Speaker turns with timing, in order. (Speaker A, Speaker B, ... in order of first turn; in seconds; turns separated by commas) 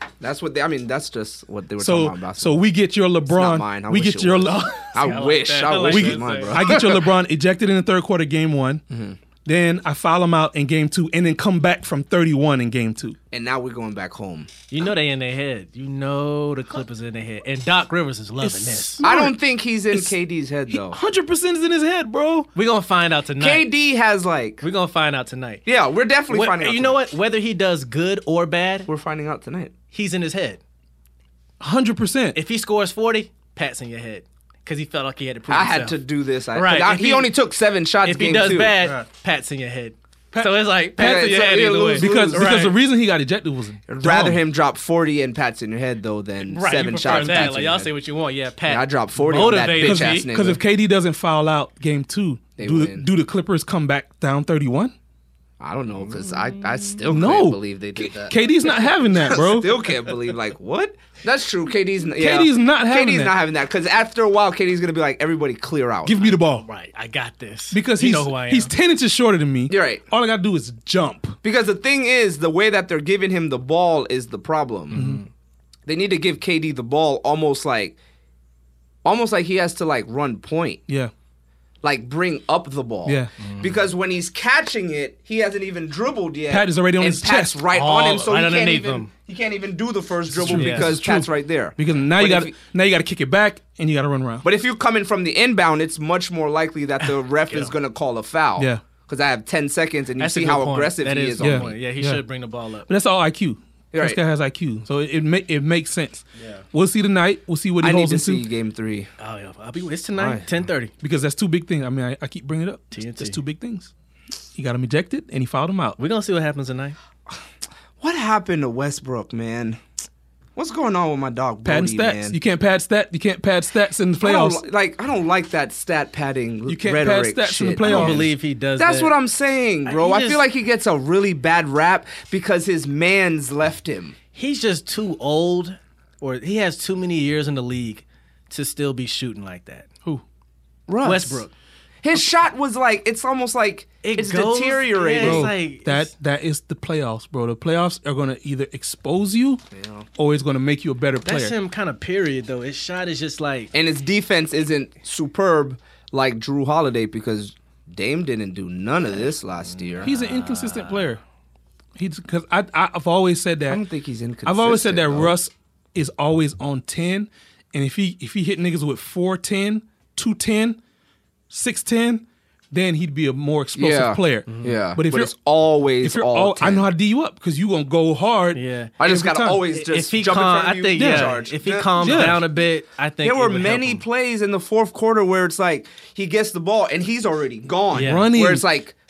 Speaker A: 0.2-2.7, Speaker B: 1.8-5.2, Speaker A: 3.3-7.0, Speaker C: 5.0-6.6, Speaker B: 5.8-8.8, Speaker A: 8.9-9.2, Speaker B: 9.4-13.2, Speaker A: 13.3-14.5, Speaker C: 14.7-19.1, Speaker B: 18.4-19.4, Speaker A: 19.0-21.0, Speaker B: 19.9-20.2, Speaker B: 20.7-22.5, Speaker C: 22.6-23.7, Speaker A: 23.4-24.6, Speaker C: 24.6-25.6, Speaker A: 25.6-27.0, Speaker C: 26.3-28.9, Speaker A: 28.9-29.7, Speaker C: 29.9-30.6, Speaker B: 31.6-32.4, Speaker C: 32.4-36.0, Speaker A: 35.5-38.8, Speaker C: 36.5-37.3, Speaker C: 38.0-42.8, Speaker B: 38.8-39.1, Speaker B: 40.3-40.7, Speaker A: 41.0-42.7, Speaker B: 42.0-44.4, Speaker A: 43.9-47.9, Speaker C: 46.5-50.3, Speaker B: 47.0-47.6, Speaker A: 48.6-50.6, Speaker B: 49.8-54.9, Speaker A: 52.6-53.1, Speaker A: 55.6-58.4, Speaker B: 57.1-59.8, Speaker A: 59.2-66.3, Speaker B: 62.1-63.4, Speaker B: 66.0-66.7, Speaker C: 66.6-68.7, Speaker B: 67.7-71.4, Speaker A: 69.7-70.0, Speaker A: 71.4-75.0, Speaker C: 74.9-75.3, Speaker B: 74.9-75.2, Speaker A: 75.9-78.0, Speaker A: 79.0-80.8, Speaker A: 81.8-92.5, Speaker B: 83.1-83.3, Speaker C: 83.4-83.8, Speaker B: 86.5-87.7, Speaker C: 87.7-89.1, Speaker B: 90.3-94.5, Speaker C: 90.5-91.0, Speaker A: 94.4-101.8, Speaker B: 98.6-98.8, Speaker C: 100.2-102.9, Speaker B: 101.4-102.2, Speaker B: 102.9-108.5, Speaker A: 103.9-104.2, Speaker A: 106.4-106.6, Speaker A: 107.8-109.1, Speaker C: 109.2-110.9, Speaker A: 110.2-110.5, Speaker B: 111.0-113.9, Speaker C: 112.9-113.4, Speaker B: 114.5-116.0, Speaker C: 116.0-117.0, Speaker A: 118.0-119.8, Speaker A: 120.6-122.4, Speaker B: 121.7-124.6, Speaker A: 124.2-134.2, Speaker B: 126.7-128.3, Speaker C: 127.8-129.2, Speaker C: 129.9-130.4, Speaker C: 134.3-139.9, Speaker A: 140.9-141.5, Speaker C: 141.0-141.5, Speaker A: 142.0-145.5, Speaker C: 144.0-146.1, Speaker B: 145.2-149.6, Speaker A: 149.7-150.1, Speaker B: 150.2-151.6, Speaker C: 151.2-153.7, Speaker A: 153.7-160.1, Speaker C: 159.7-161.1, Speaker B: 160.0-161.2, Speaker B: 162.0-163.8, Speaker A: 163.7-165.4, Speaker B: 164.4-170.8, Speaker B: 171.5-175.3, Speaker A: 173.8-176.9, Speaker C: 174.5-174.8, Speaker B: 176.0-179.6, Speaker C: 178.5-179.0, Speaker A: 179.0-182.4, Speaker C: 179.7-184.0, Speaker B: 181.0-181.3, Speaker B: 182.0-182.4, Speaker A: 183.2-188.9, Speaker C: 187.9-188.3, Speaker B: 187.9-188.7